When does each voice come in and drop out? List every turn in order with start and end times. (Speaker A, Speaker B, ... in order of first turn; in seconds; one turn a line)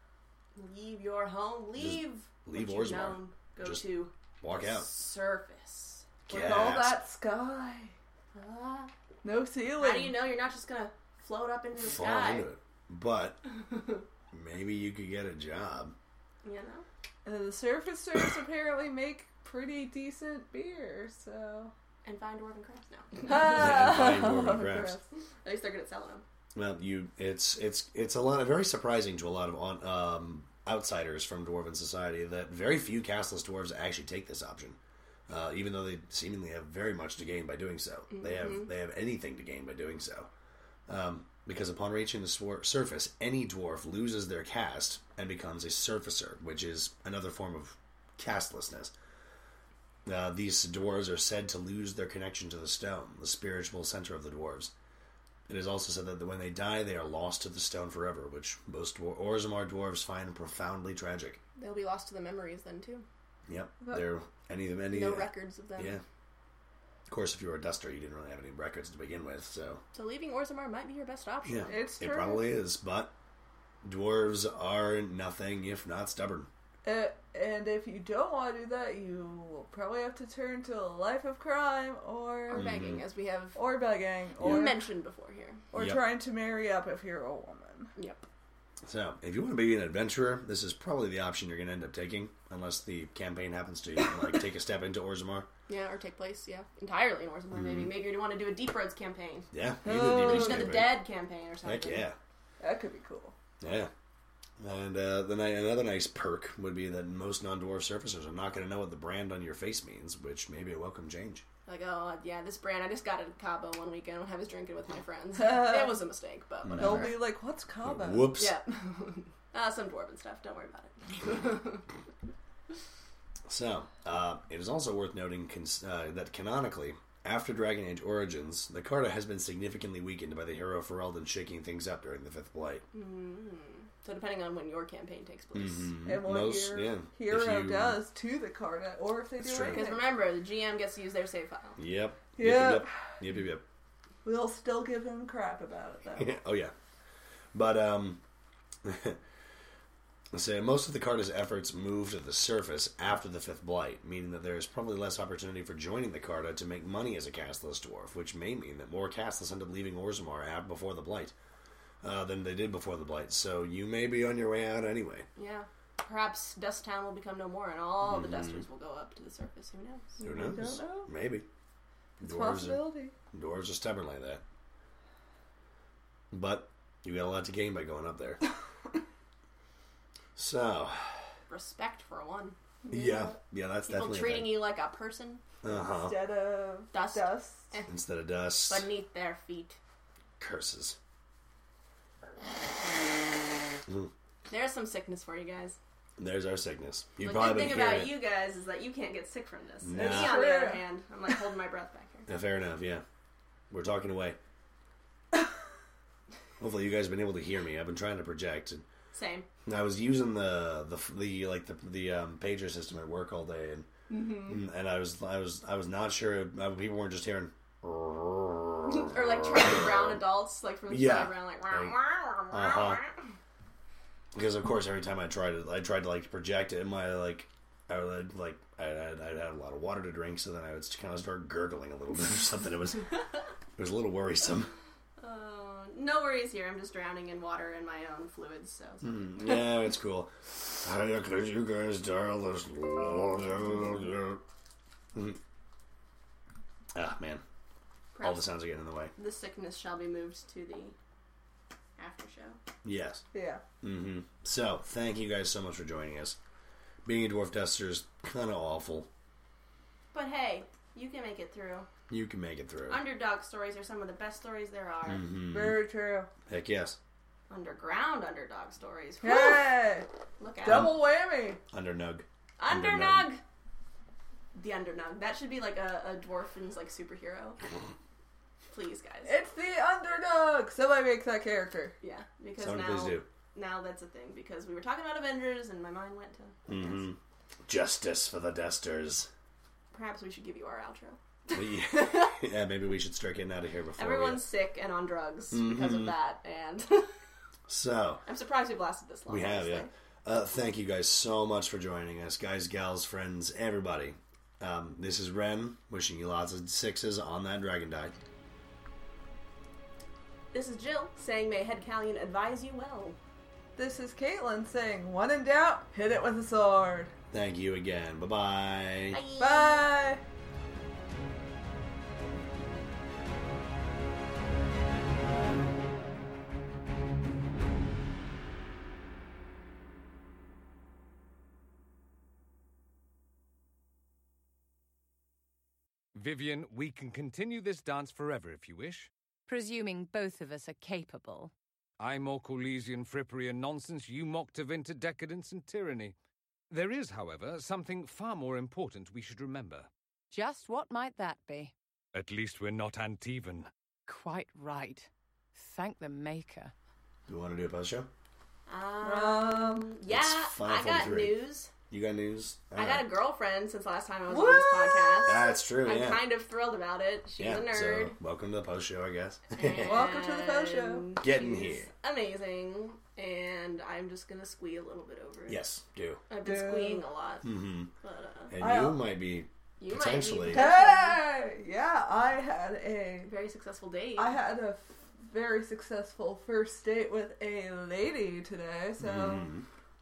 Speaker A: 0.5-6.5
Speaker B: 1.8-4.9
Speaker B: 6.3-7.0
Speaker C: 6.3-7.9
Speaker A: 8.3-8.9
Speaker C: 9.2-10.2
Speaker A: 9.8-12.5
Speaker B: 11.8-13.4
Speaker A: 13.7-14.0
Speaker B: 14.3-15.9
Speaker A: 16.4-16.9
Speaker C: 17.2-21.7
Speaker A: 22.0-24.0
Speaker C: 23.2-25.0
Speaker B: 23.3-25.0
Speaker A: 25.4-26.2
Speaker B: 26.5-40.3
Speaker A: 38.1-38.7
Speaker B: 40.9-48.9
Speaker B: 50.0-54.7
Speaker B: 55.5-61.4
Speaker A: 61.6-63.0
Speaker B: 63.5-66.0
Speaker A: 64.9-66.0
Speaker B: 67.1-69.8
Speaker A: 69.9-71.8
Speaker B: 71.4-73.1
Speaker C: 71.7-72.5
Speaker B: 73.8-76.5
Speaker C: 76.8-82.7
Speaker A: 82.5-83.6
Speaker B: 82.5-83.0
Speaker C: 83.5-84.8
Speaker A: 84.4-85.6
Speaker C: 85.7-87.9
Speaker B: 85.7-86.0
Speaker A: 88.0-88.2
Speaker B: 88.8-95.5
Speaker A: 95.7-99.5
Speaker B: 97.5-97.9
Speaker B: 99.5-101.0
Speaker C: 99.8-100.8
Speaker A: 100.2-102.1
Speaker B: 101.6-102.2
Speaker C: 102.6-103.3
Speaker B: 103.6-103.9
Speaker B: 104.6-111.4
Speaker A: 111.7-117.2
Speaker C: 115.4-116.0
Speaker B: 116.6-117.2
Speaker C: 116.8-118.3
Speaker B: 117.8-118.5
Speaker A: 118.4-121.8
Speaker B: 123.5-132.8
Speaker A: 132.9-135.9
Speaker B: 135.5-138.0
Speaker C: 136.0-140.1
Speaker B: 139.4-139.8
Speaker A: 139.6-141.8
Speaker B: 141.8-143.6
Speaker C: 142.3-143.1
Speaker C: 144.2-146.3
Speaker B: 146.2-146.7
Speaker B: 147.5-148.2
Speaker B: 148.8-149.2
Speaker B: 150.3-161.3
Speaker B: 162.0-165.3
Speaker A: 165.3-170.2
Speaker B: 168.0-168.6
Speaker C: 170.2-171.1
Speaker B: 170.2-171.5
Speaker C: 172.2-173.1
Speaker B: 172.2-174.4
Speaker B: 176.3-178.4
Speaker B: 180.3-181.2
Speaker A: 181.5-182.6
Speaker C: 182.8-183.4
Speaker B: 182.9-184.7
Speaker A: 183.8-185.4
Speaker B: 185.6-186.2
Speaker C: 185.7-187.7
Speaker A: 186.9-187.9
Speaker B: 187.9-188.9
Speaker A: 188.7-189.8
Speaker B: 190.4-191.0
Speaker A: 194.5-195.8
Speaker B: 196.2-198.2
Speaker A: 197.2-202.3
Speaker B: 199.8-200.5
Speaker C: 199.9-200.8
Speaker B: 202.3-203.0
Speaker B: 203.7-204.4
Speaker B: 206.6-208.8
Speaker A: 209.1-209.5
Speaker B: 209.6-220.2
Speaker A: 214.1-214.6
Speaker A: 218.8-223.2
Speaker B: 220.9-221.9
Speaker B: 222.5-223.0
Speaker B: 224.3-233.1
Speaker B: 233.8-234.7
Speaker A: 235.2-239.4
Speaker B: 239.0-244.4
Speaker B: 245.1-245.4
Speaker B: 246.9-247.4
Speaker A: 248.1-248.5
Speaker B: 248.2-249.1
Speaker A: 249.1-250.9
Speaker A: 252.0-252.6
Speaker B: 252.8-253.2
Speaker C: 253.3-253.6
Speaker B: 253.8-256.4
Speaker B: 257.0-259.1
Speaker A: 260.1-261.9
Speaker B: 262.1-263.0
Speaker A: 262.9-265.2
Speaker B: 265.1-265.9
Speaker C: 265.5-266.3
Speaker B: 266.5-267.0
Speaker A: 267.5-269.8
Speaker C: 269.2-270.1
Speaker A: 270.4-270.9
Speaker C: 270.6-271.6
Speaker B: 270.6-271.0
Speaker B: 271.7-273.3
Speaker A: 272.6-273.4
Speaker A: 274.5-277.6
Speaker A: 278.7-279.4
Speaker C: 279.2-281.9
Speaker A: 282.0-287.0
Speaker B: 282.6-283.2
Speaker B: 286.7-289.3
Speaker A: 289.9-291.2
Speaker B: 291.5-294.4
Speaker A: 294.0-297.1
Speaker B: 295.5-296.1
Speaker B: 297.7-298.2
Speaker A: 298.2-299.9
Speaker B: 299.3-308.1
Speaker A: 310.5-313.2
Speaker C: 313.8-317.1
Speaker B: 317.3-319.2
Speaker A: 319.1-319.9
Speaker C: 319.4-320.2
Speaker D: 336.1-339.1
Speaker E: 339.5-341.5
Speaker D: 342.0-346.1
Speaker D: 346.7-349.9
Speaker E: 350.3-351.7
Speaker D: 352.1-353.7
Speaker E: 354.1-356.7
Speaker B: 357.3-358.1
Speaker A: 358.7-361.7
Speaker C: 359.0-359.9
Speaker B: 360.1-363.1
Speaker A: 362.8-368.2
Speaker C: 364.3-365.4
Speaker B: 365.2-366.3
Speaker B: 367.4-370.1
Speaker A: 369.5-375.6
Speaker C: 369.9-371.2
Speaker B: 371.2-371.9
Speaker B: 375.5-376.2
Speaker A: 376.3-378.6
Speaker C: 376.4-377.0
Speaker B: 377.4-377.9
Speaker B: 378.5-380.7
Speaker C: 378.6-379.1
Speaker A: 379.8-381.3
Speaker C: 380.5-383.3
Speaker A: 383.3-384.3
Speaker C: 384.2-389.5
Speaker B: 389.0-389.6